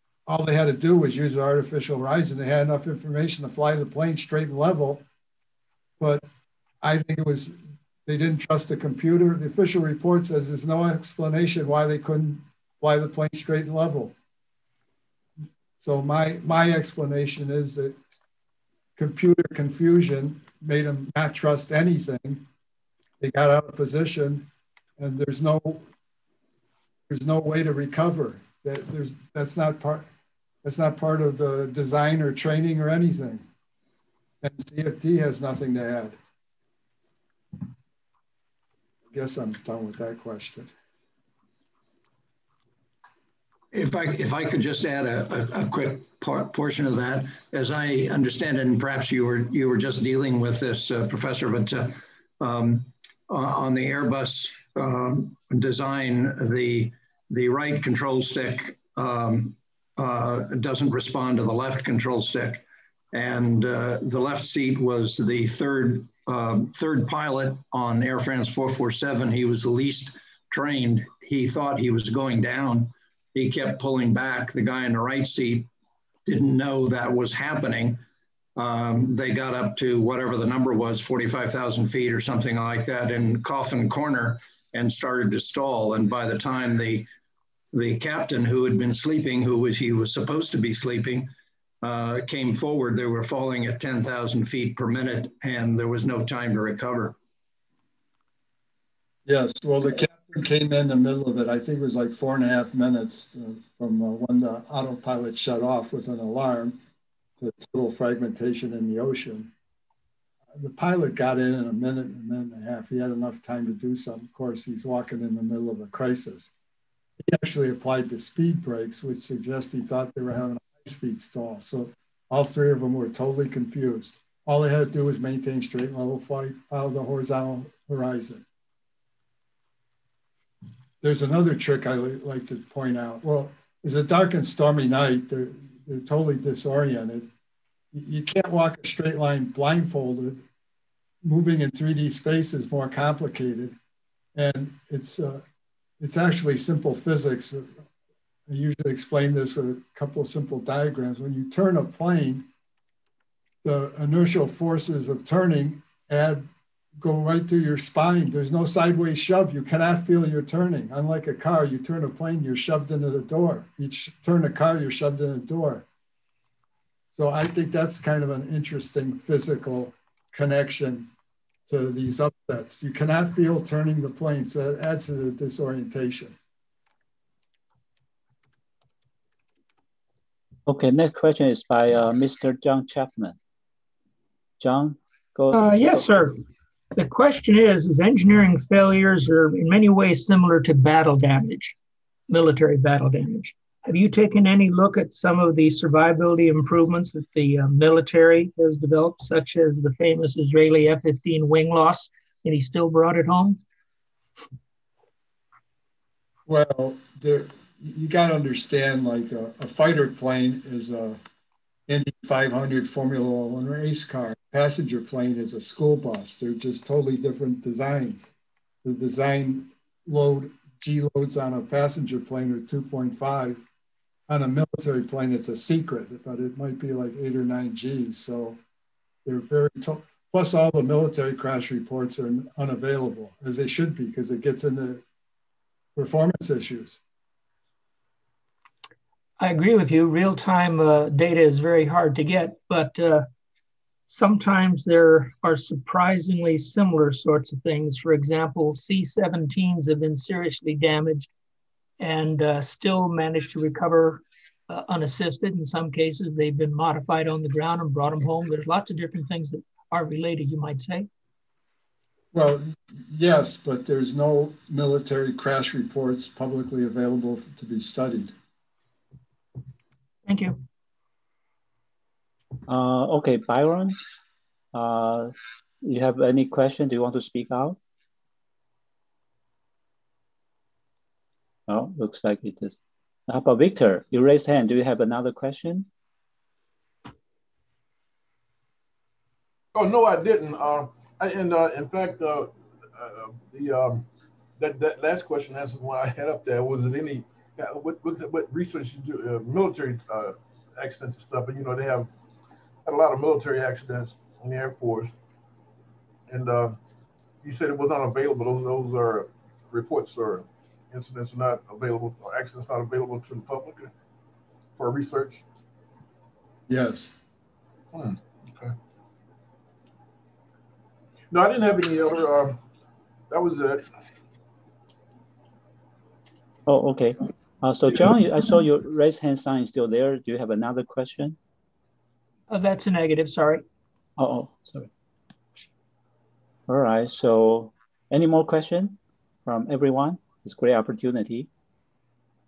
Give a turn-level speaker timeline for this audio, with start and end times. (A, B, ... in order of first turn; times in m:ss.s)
0:00.3-0:05.0 A
0:06.0-0:06.2 A
0:06.8-0:14.1 A
0:15.8-0:18.0 A
0:19.0-0:22.4 A
0:23.2-0:24.4 A
0:25.0-0:25.8 A
0:27.1-0:30.1 A
0:30.6-0:33.4 A
0:34.4-0:36.1 A
0:39.1-0:40.7 A
0:43.7-1:15.7 B
1:16.3-1:18.0 B
1:18.6-1:27.1 B
1:27.7-1:31.3 B
1:31.8-1:37.2 B
1:39.3-1:46.8 A
1:47.4-1:49.5 A
1:50.6-1:56.5 A
1:57.2-2:08.4 A
2:11.0-2:17.3 A
2:17.9-2:20.4 A
2:21.2-2:23.7 A
2:24.4-2:25.4 A
2:26.0-2:27.8 A
2:28.5-2:32.4 A
2:33.6-2:36.5 A
2:37.0-2:45.8 A
2:47.1-2:51.1 A
2:51.7-2:56.4 A
3:00.7-3:03.4 C
3:04.6-3:06.1 C
3:05.5-3:06.4 D
3:06.9-3:11.8 D
3:12.3-3:23.6 D
3:26.5-3:31.2 A
3:31.9-3:38.3 A
3:38.8-3:43.6 A
3:44.3-3:48.6 A
3:49.2-3:55.0 A
3:56.0-3:57.0 A
3:59.4-4:03.3 D
4:04.1-4:11.3 D
4:12.0-4:21.1 D
4:22.3-4:28.3 A
4:30.3-4:30.6 D
4:32.6-4:34.0 C
4:34.7-4:37.8 C
4:41.7-4:45.9 C
4:49.7-4:54.0 E
4:54.6-5:02.1 E
5:02.8-5:05.1 E
5:06.3-5:06.8 E
5:07.4-5:13.9 E
5:14.8-5:15.4 E
5:16.7-5:17.1 A
5:17.9-5:18.7 E
5:21.3-5:22.6 E
5:23.3-5:23.8 E
5:26.7-5:31.4 C
5:32.5-5:33.6 D
5:34.2-5:34.9 C
5:36.7-5:41.5 C